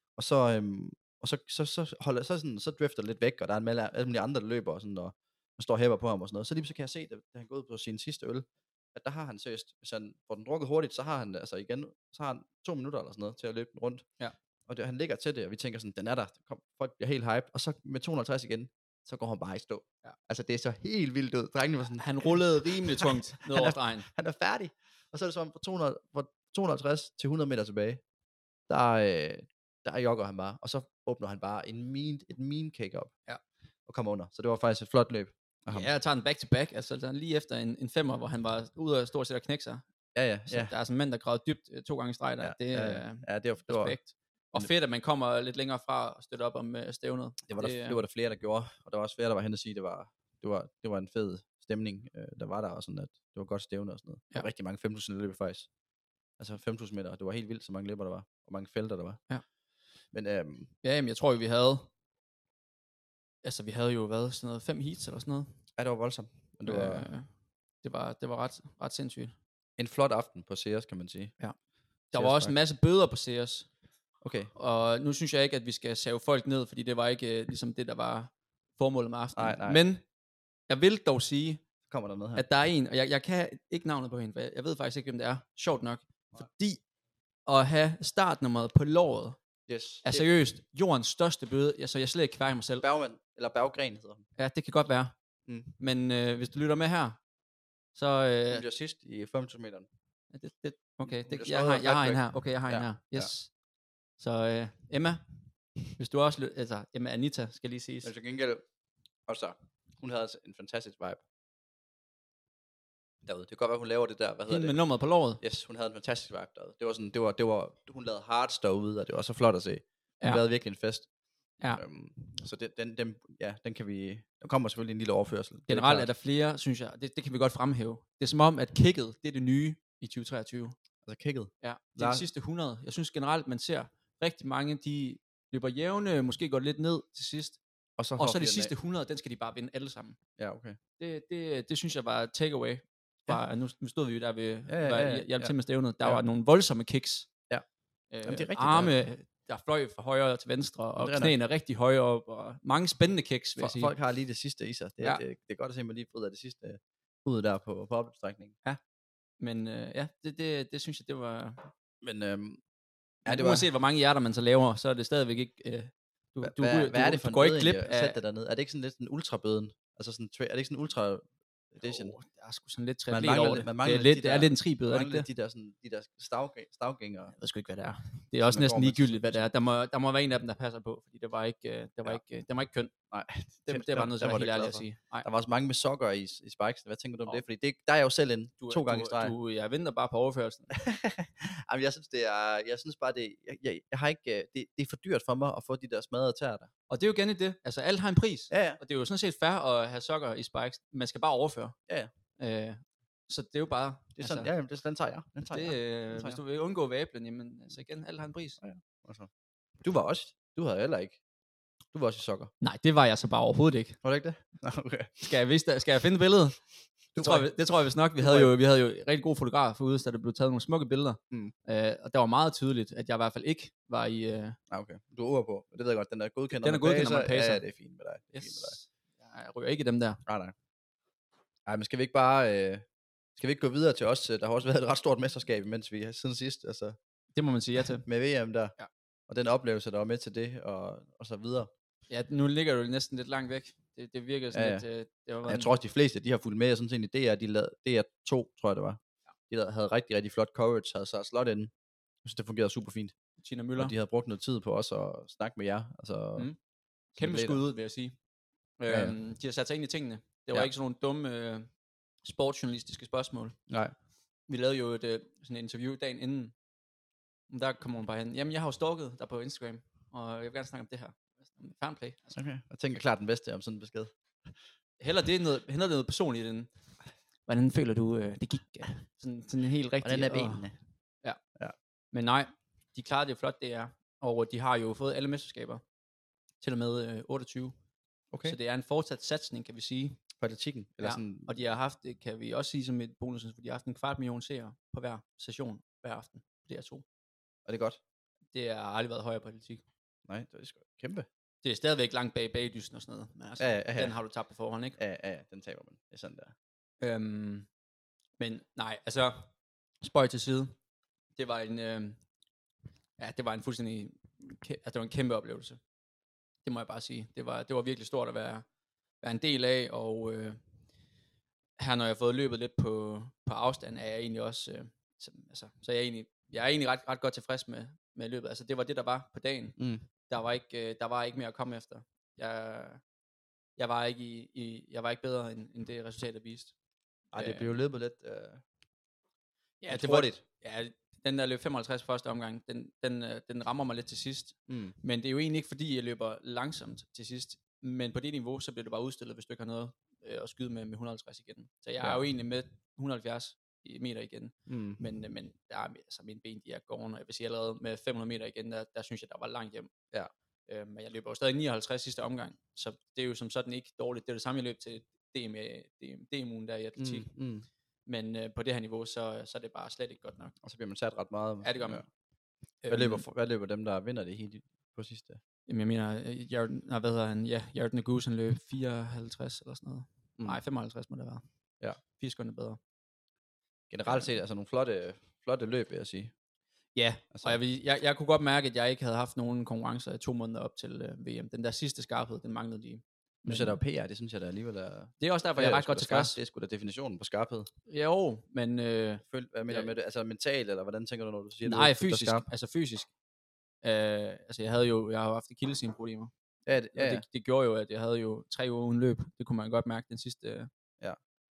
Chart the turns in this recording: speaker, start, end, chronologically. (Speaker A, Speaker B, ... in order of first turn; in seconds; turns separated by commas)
Speaker A: 0.2-14.1, Speaker A: 14.7-28.0, Speaker B: 22.0-24.1, Speaker A: 28.7-33.1, Speaker A: 33.9-35.9, Speaker B: 35.7-39.8, Speaker A: 40.1-40.7, Speaker B: 40.5-48.0, Speaker A: 42.4-44.0, Speaker A: 47.5-55.7, Speaker A: 56.4-59.2, Speaker A: 60.1-60.7, Speaker B: 60.8-61.9, Speaker B: 63.4-65.6, Speaker A: 65.8-67.1, Speaker B: 66.7-67.3, Speaker B: 67.8-69.3, Speaker A: 69.8-71.3, Speaker A: 72.1-72.5, Speaker B: 72.1-73.7, Speaker A: 74.2-74.5, Speaker B: 74.5-80.0, Speaker A: 79.3-79.8, Speaker B: 80.7-81.6, Speaker A: 81.9-82.5, Speaker B: 82.3-86.8, Speaker B: 87.5-89.4, Speaker A: 89.7-90.3, Speaker B: 90.0-92.8, Speaker A: 92.8-94.2, Speaker B: 94.4-95.2, Speaker A: 95.5-95.7, Speaker B: 95.8-97.2, Speaker B: 97.9-98.7, Speaker A: 98.5-99.9, Speaker B: 100.3-103.5, Speaker A: 101.1-103.3, Speaker B: 104.2-108.1, Speaker A: 108.0-108.7, Speaker A: 109.3-111.2, Speaker A: 113.2-114.8, Speaker B: 114.5-115.4, Speaker A: 115.4-121.1, Speaker A: 121.7-126.1, Speaker B: 125.7-130.8, Speaker A: 131.1-132.3, Speaker B: 131.6-137.6, Speaker A: 138.0-138.7, Speaker B: 138.2-140.2, Speaker A: 140.4-140.8, Speaker B: 141.0-147.3, Speaker A: 144.7-146.2, Speaker B: 148.1-153.9, Speaker A: 148.2-149.0, Speaker A: 151.0-151.3, Speaker A: 153.6-158.6, Speaker B: 159.4-161.7, Speaker A: 162.0-162.6, Speaker A: 163.3-163.7, Speaker B: 163.3-168.2, Speaker A: 166.4-172.1, Speaker B: 171.8-175.3, Speaker A: 173.1-177.3, Speaker B: 177.3-182.9, Speaker A: 178.4-179.5, Speaker A: 183.1-189.3, Speaker B: 183.7-185.3, Speaker B: 188.6-190.7, Speaker A: 190.7-196.7, Speaker B: 196.9-201.8, Speaker A: 198.5-198.8, Speaker B: 202.4-204.5, Speaker A: 204.2-206.4, Speaker B: 205.5-208.6, Speaker A: 208.6-209.3, Speaker A: 209.8-211.2, Speaker A: 211.9-212.5, Speaker B: 212.6-214.0, Speaker A: 214.0-215.2, Speaker B: 215.2-216.6, Speaker A: 217.2-217.5, Speaker B: 217.2-224.6, Speaker A: 218.2-218.5, Speaker A: 224.7-228.8, Speaker B: 226.6-227.6, Speaker B: 228.3-230.2, Speaker A: 230.3-230.5, Speaker A: 231.7-232.8, Speaker A: 233.4-237.0, Speaker B: 237.3-238.1, Speaker A: 238.0-238.7, Speaker A: 239.3-241.7, Speaker B: 242.1-245.7, Speaker A: 244.5-244.8, Speaker A: 245.5-251.7, Speaker A: 252.2-253.1, Speaker B: 253.4-253.9, Speaker A: 253.8-256.5, Speaker B: 257.2-258.1, Speaker A: 257.2-257.6, Speaker B: 258.8-261.7, Speaker A: 258.9-259.2, Speaker B: 262.2-263.6, Speaker A: 263.7-263.9, Speaker B: 264.5-266.5, Speaker B: 267.5-272.4, Speaker A: 272.4-274.1, Speaker B: 275.0-276.7, Speaker B: 277.5-280.7, Speaker A: 280.0-280.8, Speaker B: 282.1-285.8, Speaker B: 286.6-287.7, Speaker A: 288.3-288.6, Speaker B: 288.4-290.2, Speaker A: 290.4-291.6, Speaker B: 291.0-297.0, Speaker A: 297.7-298.0, Speaker B: 298.5-299.8, Speaker A: 300.3-301.3, Speaker B: 301.6-305.0, Speaker A: 303.6-304.2, Speaker A: 305.0-306.5, Speaker B: 307.0-307.7, Speaker B: 308.4-309.5, Speaker B: 310.0-310.7, Speaker B: 311.4-312.2, Speaker B: 313.2-315.8, Speaker B: 316.6-318.6, Speaker B: 319.2-320.6, Speaker B: 321.8-329.8, Speaker A: 329.8-330.1, Speaker B: 330.3-333.0, Speaker B: 333.8-336.7, Speaker B: 337.3-337.8, Speaker A: 337.3-338.6, Speaker B: 339.8-359.9, Speaker A: 339.9-340.4, Speaker A: 344.7-345.0, Speaker A: 354.7-355.0, Speaker B: 360.7-367.3, Speaker A: 367.0-367.7, Speaker B: 368.1-370.6, Speaker A: 370.6-372.1, Speaker B: 371.6-372.0, Speaker B: 372.8-373.3, Speaker A: 372.9-375.4, Speaker B: 375.7-381.4, Speaker B: 382.1-382.8, Speaker A: 383.9-386.3, Speaker B: 384.1-384.3, Speaker B: 386.9-393.8, Speaker A: 393.4-397.7, Speaker B: 395.2-396.4, Speaker B: 397.9-399.9, Speaker A: 399.2-402.5, Speaker B: 401.6-403.1, Speaker B: 403.8-406.3, Speaker A: 406.7-407.2, Speaker B: 406.9-410.7